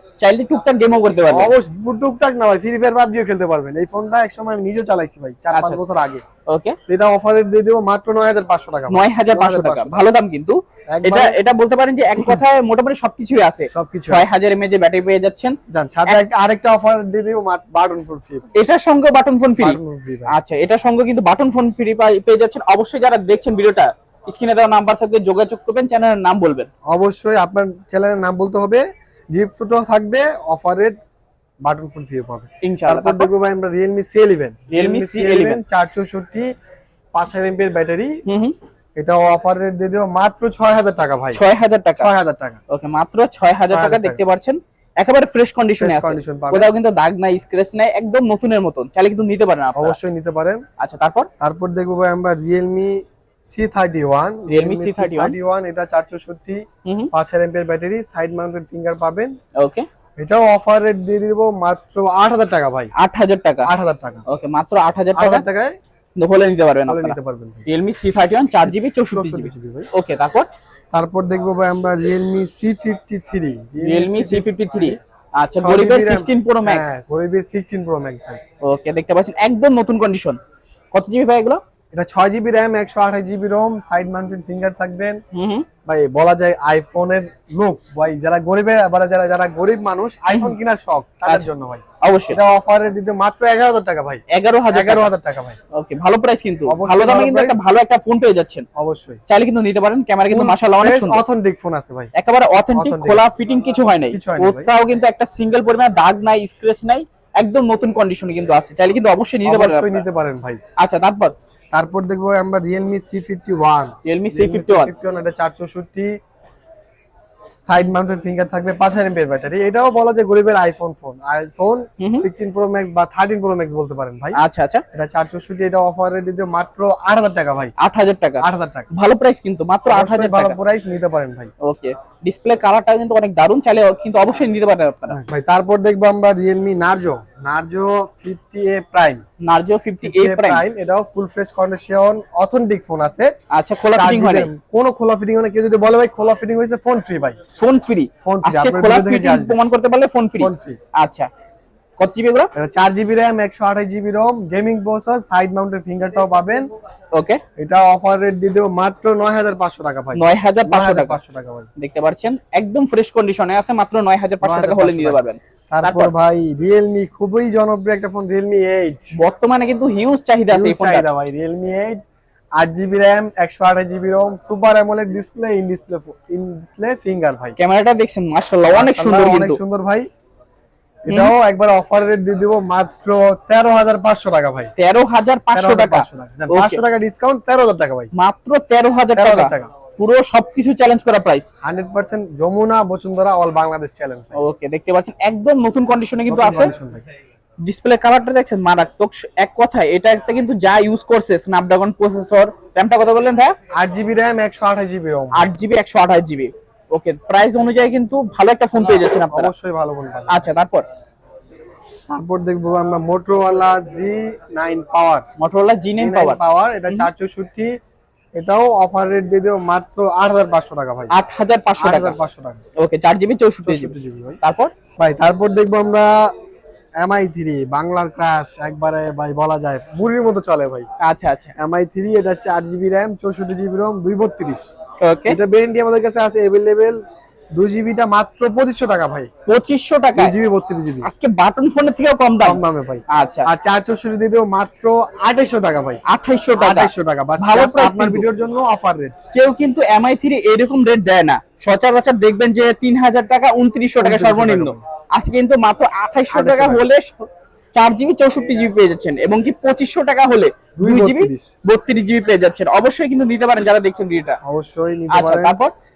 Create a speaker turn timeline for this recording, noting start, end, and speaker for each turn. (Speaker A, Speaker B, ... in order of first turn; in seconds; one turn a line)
Speaker A: 0.2-1.5
Speaker B: 1.3-6.2
Speaker A: 5.5-5.8
Speaker A: 6.5-6.8
Speaker B: 6.9-10.0
Speaker A: 8.9-16.2
Speaker B: 10.9-11.4
Speaker B: 13.7-14.3
Speaker B: 15.7-18.5
Speaker A: 18.6-26.7
Speaker B: 19.6-20.4
Speaker B: 26.9-31.0
Speaker B: 31.6-36.5
Speaker A: 32.6-33.3
Speaker A: 34.7-35.6
Speaker B: 37.1-38.2
Speaker A: 38.3-38.5
Speaker B: 39.0-41.4
Speaker A: 41.3-42.1
Speaker B: 42.0-42.6
Speaker A: 42.7-50.0
Speaker B: 43.7-44.2
Speaker B: 45.8-46.7
Speaker B: 49.8-50.6
Speaker A: 50.8-51.3
Speaker B: 51.4-59.3
Speaker A: 54.5-55.4
Speaker A: 56.9-57.1
Speaker A: 59.6-59.9
Speaker B: 60.2-62.9
Speaker A: 63.0-63.7
Speaker B: 63.7-64.2
Speaker A: 64.3-65.5
Speaker B: 65.2-65.8
Speaker A: 66.2-67.2
Speaker B: 66.9-67.7
Speaker A: 67.7-70.5
Speaker B: 69.1-69.9
Speaker B: 70.9-75.0
Speaker A: 73.8-76.9
Speaker B: 75.6-78.4
Speaker A: 78.6-80.4
Speaker A: 80.9-81.6
Speaker B: 81.9-85.2
Speaker A: 85.3-85.7
Speaker B: 85.9-95.6
Speaker A: 90.3-90.6
Speaker A: 92.0-92.4
Speaker A: 94.3-95.1
Speaker A: 95.7-98.7
Speaker B: 96.7-97.6
Speaker B: 98.8-99.2
Speaker A: 99.3-101.2
Speaker B: 100.3-102.1
Speaker A: 102.1-110.0
Speaker B: 102.7-103.2
Speaker B: 104.1-104.7
Speaker B: 109.5-110.6
Speaker A: 110.8-111.3
Speaker B: 111.7-116.1
Speaker A: 114.0-114.9
Speaker B: 117.7-124.4
Speaker A: 122.0-122.3
Speaker A: 124.4-124.8
Speaker B: 124.9-127.7
Speaker A: 127.8-130.6
Speaker B: 128.4-128.9
Speaker B: 129.9-131.5
Speaker A: 131.6-135.2
Speaker B: 135.1-139.2
Speaker A: 139.4-140.6
Speaker B: 140.0-143.3
Speaker A: 143.5-144.5
Speaker B: 143.9-147.4
Speaker A: 147.6-151.3
Speaker B: 148.2-149.6
Speaker B: 150.4-150.8
Speaker A: 152.0-152.5
Speaker B: 152.6-156.7
Speaker A: 157.2-157.4
Speaker B: 157.6-161.7
Speaker A: 160.2-161.2
Speaker A: 161.8-166.1
Speaker B: 164.4-169.1
Speaker A: 169.2-171.1
Speaker B: 170.5-172.0
Speaker B: 172.6-177.6
Speaker A: 177.6-179.6
Speaker B: 178.7-180.1
Speaker B: 181.1-184.7
Speaker A: 181.1-181.3
Speaker A: 184.8-186.8
Speaker B: 185.5-188.1
Speaker A: 188.1-191.5
Speaker B: 189.2-189.7
Speaker B: 191.6-194.4
Speaker A: 194.4-196.7
Speaker B: 196.3-197.0
Speaker A: 197.6-203.5
Speaker B: 203.8-205.5
Speaker A: 205.3-209.5
Speaker B: 209.3-210.5
Speaker A: 210.3-210.8
Speaker B: 212.1-215.2
Speaker A: 215.4-217.1
Speaker B: 216.0-217.7
Speaker B: 218.4-221.1
Speaker A: 221.1-222.2
Speaker B: 221.8-222.6
Speaker A: 222.8-224.7
Speaker B: 223.6-224.4
Speaker B: 225.0-226.3
Speaker B: 227.0-230.9
Speaker A: 231.0-231.5
Speaker B: 231.6-234.7
Speaker A: 235.0-235.4
Speaker B: 235.3-237.0
Speaker B: 237.6-239.3
Speaker A: 239.5-240.3
Speaker B: 240.2-241.1
Speaker A: 241.0-243.5
Speaker B: 242.4-246.0
Speaker A: 246.1-248.2
Speaker B: 246.6-249.2
Speaker A: 249.3-264.4
Speaker B: 254.0-254.8
Speaker B: 256.3-256.9
Speaker B: 260.8-261.5
Speaker B: 264.4-265.6
Speaker A: 265.1-265.7